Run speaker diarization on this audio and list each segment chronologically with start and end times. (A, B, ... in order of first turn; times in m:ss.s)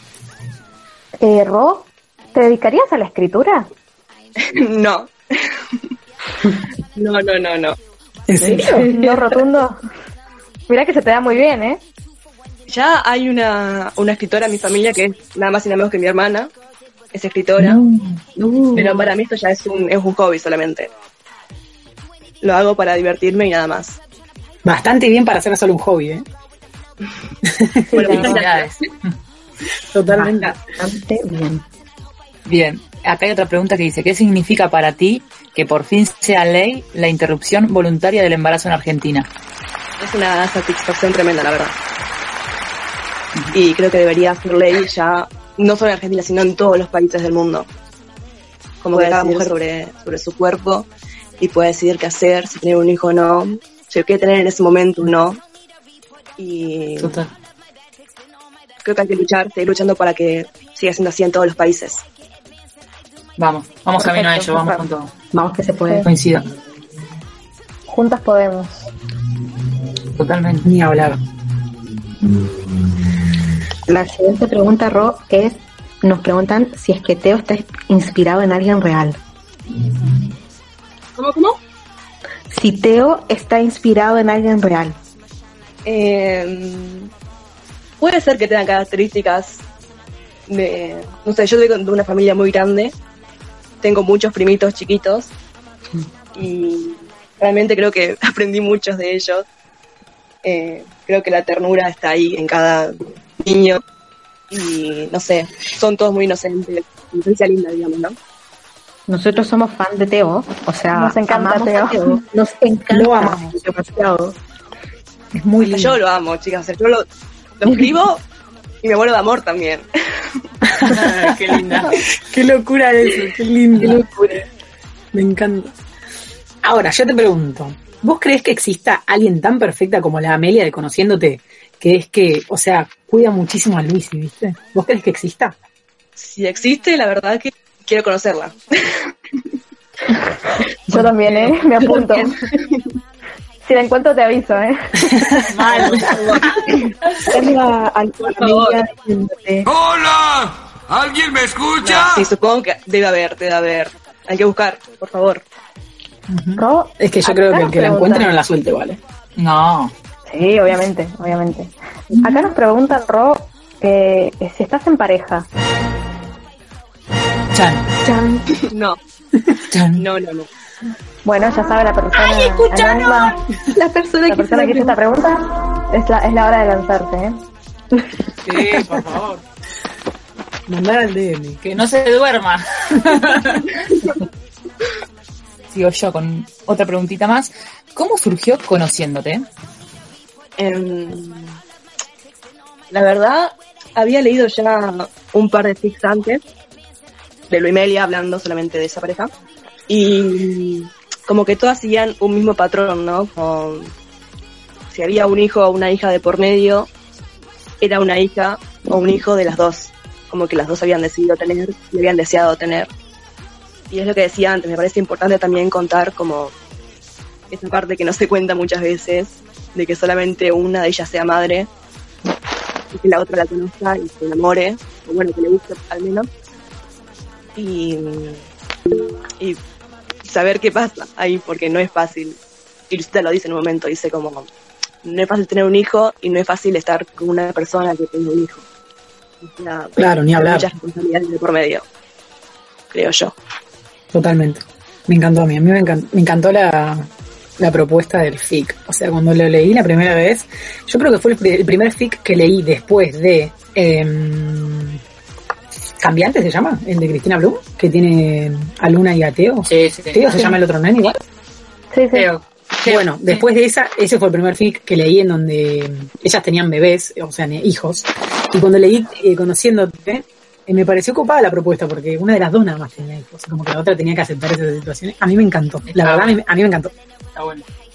0:01.2-0:03.7 A
0:04.4-0:05.8 B
0:07.0-0:07.8 B
0:08.3-0:08.9 C
0:08.4-0:09.2 D
0:08.9-0:09.8 A
0:10.7-0:11.8 A
0:12.7-0:16.5 B
0:17.1-0:17.8 B
0:17.6-0:18.2 E
0:18.4-0:19.1 D
0:18.7-0:20.9 B
0:22.4-0:24.0 B
0:24.6-0:26.2 C
0:27.4-0:28.2 C
0:27.9-0:28.8 B
0:28.0-0:29.1 E
0:28.0-0:28.3 A
0:29.9-0:30.6 C
0:30.1-0:31.6 D
0:32.5-0:39.3 E
0:40.0-0:41.8 B
0:43.5-0:47.7 B
0:48.8-0:50.9 B
0:48.9-0:49.5 D
0:51.4-0:55.4 B
0:56.4-0:57.2 B
0:57.0-0:57.3 E
0:58.8-1:02.0 B
1:03.4-1:05.1 E
1:05.3-1:06.1 D
1:06.0-1:06.5 E
1:07.9-1:08.9 A
1:10.2-1:10.7 E
1:10.6-1:11.2 C
1:13.9-1:19.2 D
1:21.2-1:21.6 B
1:22.5-1:25.0 D
1:25.8-1:27.1 B
1:28.0-1:29.6 B
1:30.5-1:33.0 B
1:33.8-1:35.3 B
1:36.4-1:39.4 B
1:40.4-1:43.8 B
1:44.5-1:48.2 B
1:49.1-1:54.4 D
1:50.9-1:52.2 A
1:52.9-1:53.6 C
1:55.3-1:56.0 C
1:55.6-1:57.0 B
1:57.6-1:58.2 B
1:58.8-2:00.5 B
2:00.7-2:04.0 C
2:00.8-2:02.0 E
2:03.8-2:04.4 D
2:05.1-2:05.7 C
2:06.6-2:15.6 C
2:16.2-2:19.1 B
2:20.9-2:22.4 A
2:21.9-2:22.9 B
2:23.6-2:24.8 A
2:25.2-2:25.9 C
2:25.5-2:26.4 E
2:25.7-2:26.8 B
2:27.3-2:29.7 D
2:28.2-2:28.8 B
2:31.7-2:35.4 B
2:36.3-2:39.0 C
2:36.6-2:38.4 A
2:39.4-2:39.9 E
2:40.3-2:45.5 A
2:47.6-2:47.8 C
2:48.1-2:48.4 D
2:48.7-2:49.0 B
2:49.7-2:50.1 E
2:50.0-2:50.5 B
2:51.2-2:53.4 A
2:52.3-2:53.3 E
2:53.7-2:55.0 D
2:54.3-2:57.4 A
2:58.4-2:59.4 E
2:58.5-2:59.1 C
3:00.7-3:01.6 C
3:01.6-3:03.7 E
3:05.7-3:09.5 E
3:10.6-3:11.6 B
3:12.9-3:16.4 B
3:17.5-3:19.3 B
3:19.9-3:23.9 B
3:24.9-3:26.9 B
3:27.8-3:32.9 B
3:33.9-3:36.5 B
3:37.5-3:41.7 B
3:42.9-3:46.3 B
3:47.6-3:48.4 B
3:50.2-3:52.4 B
3:52.9-3:54.5 B
3:55.0-3:58.6 B
3:59.4-4:01.8 B
4:00.0-4:00.7 C
4:02.9-4:03.3 B
4:04.1-4:15.0 C
4:16.0-4:21.2 C
4:19.6-4:20.3 E
4:21.9-4:22.3 A
4:22.1-4:23.4 E
4:22.8-4:36.9 C
4:35.8-4:36.4 E
4:37.4-4:37.6 E